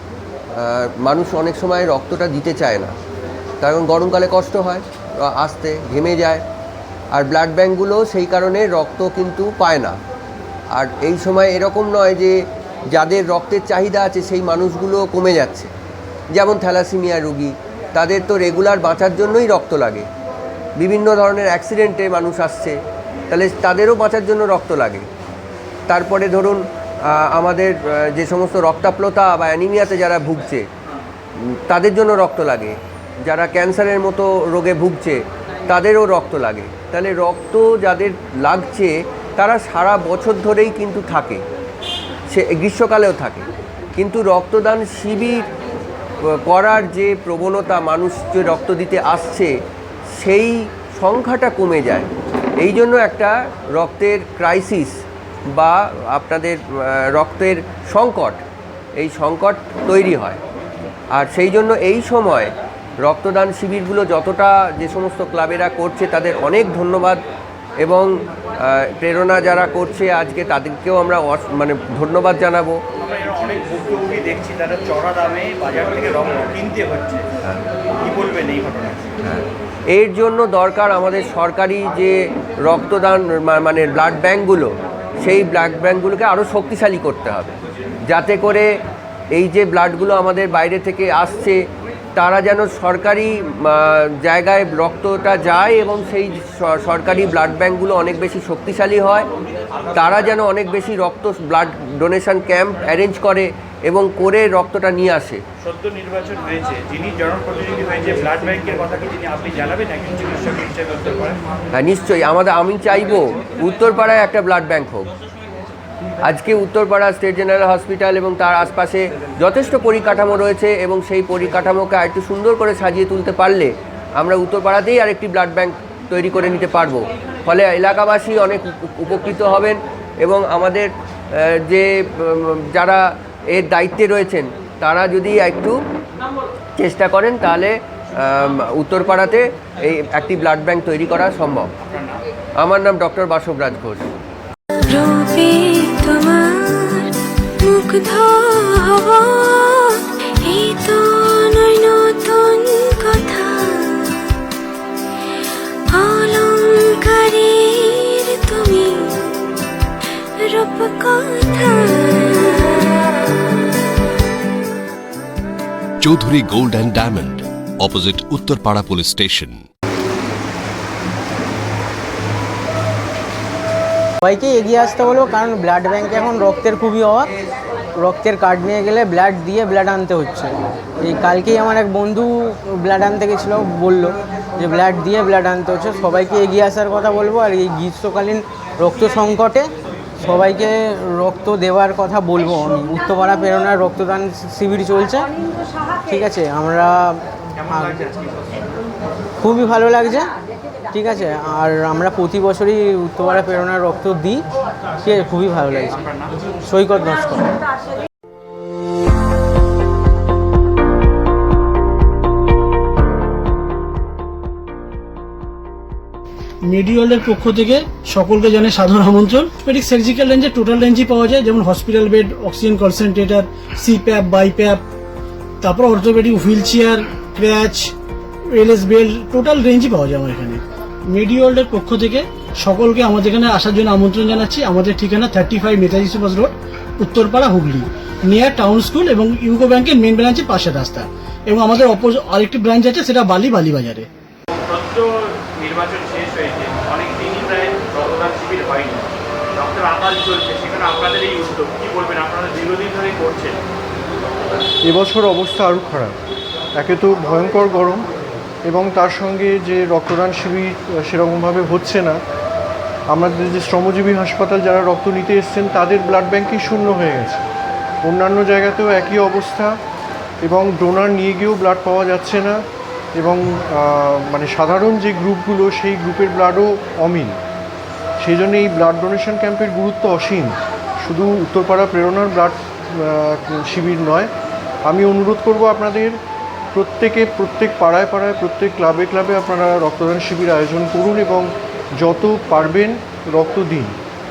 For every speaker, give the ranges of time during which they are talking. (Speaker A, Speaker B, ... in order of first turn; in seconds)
Speaker A: 0.6-2.9, 3.6-6.4, 7.1-9.9, 10.7-12.3, 12.9-15.7, 16.3-20.1, 20.8-22.8, 23.3-25.1, 25.9-26.6, 27.1-30.6, 31.7-41.4, 42.3-45.4, 46.4-49.5, 50.2-52.1, 52.6-55.0, 55.5-58.4, 59.0-60.4, 61.1-62.5, 63.0-67.2, 67.8-68.1, 68.6-72.8, 79.2-84.7, 85.2-88.7, 89.3-91.6, 92.2-99.3, 99.9-105.4, 111.7-115.1, 116.2-133.0, 133.5-135.8, 136.8-141.7, 142.6-144.1
Speaker B: 73.0-77.3, 78.0-79.1, 105.6-111.4, 141.8-142.2, 198.1-198.4, 205.9-206.3, 244.5-253.6
Speaker C: 144.9-154.2, 155.9-159.5, 160.4-163.9
Speaker D: 166.0-169.6
Speaker E: 174.2-177.3, 178.0-189.7, 190.2-195.3, 196.0-198.0, 199.4-200.3, 200.9-204.4, 204.9-206.0, 206.6-207.5
Speaker F: 216.6-224.8, 225.6-227.9, 228.5-244.1
Speaker G: 254.8-256.2, 256.8-258.1, 258.6-262.2, 263.1-267.4, 268.0-269.8, 270.4-272.6, 273.1-277.4, 278.2-284.3, 284.9-286.2, 286.7-294.0